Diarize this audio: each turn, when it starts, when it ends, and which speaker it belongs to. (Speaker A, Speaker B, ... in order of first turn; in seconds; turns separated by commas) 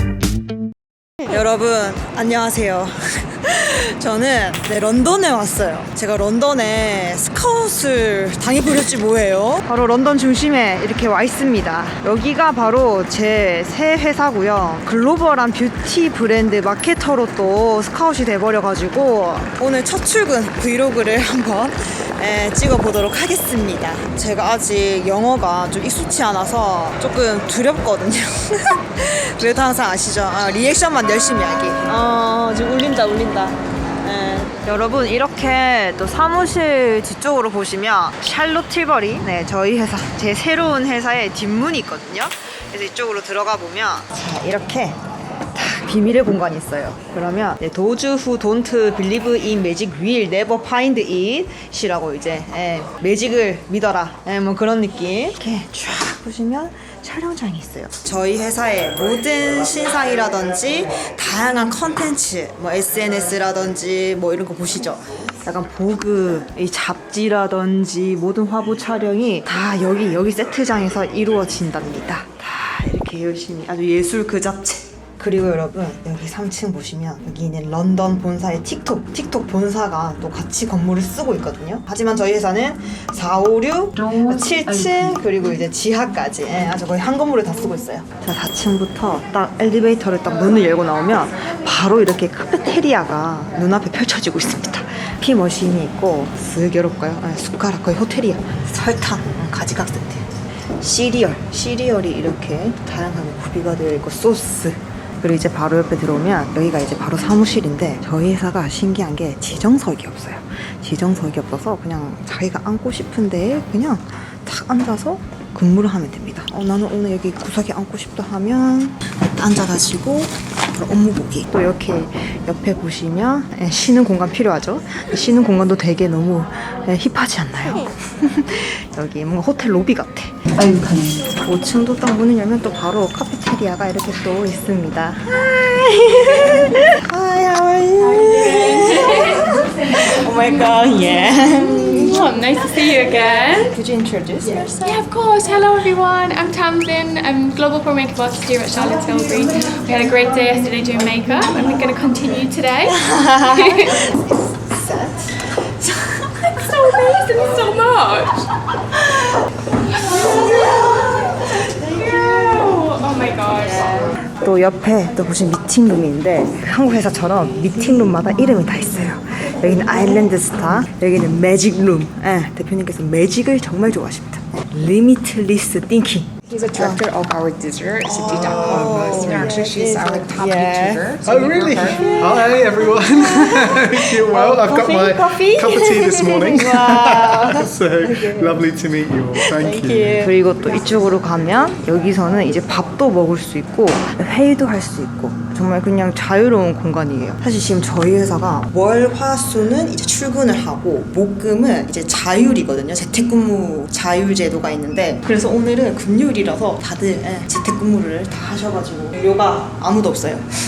Speaker A: 1.3-145.0, Speaker B: 138.0-140.5, Speaker B: 141.4-143.7, Speaker B: 144.8-154.1, Speaker A: 152.9-156.3, Speaker B: 156.4-158.4, Speaker B: 159.9-164.1, Speaker A: 160.1-162.7, Speaker A: 164.4-177.0, Speaker C: 176.5-182.1, Speaker A: 178.0-181.1, Speaker D: 178.3-179.4, Speaker D: 181.2-190.3, Speaker A: 181.8-188.6, Speaker A: 189.4-210.5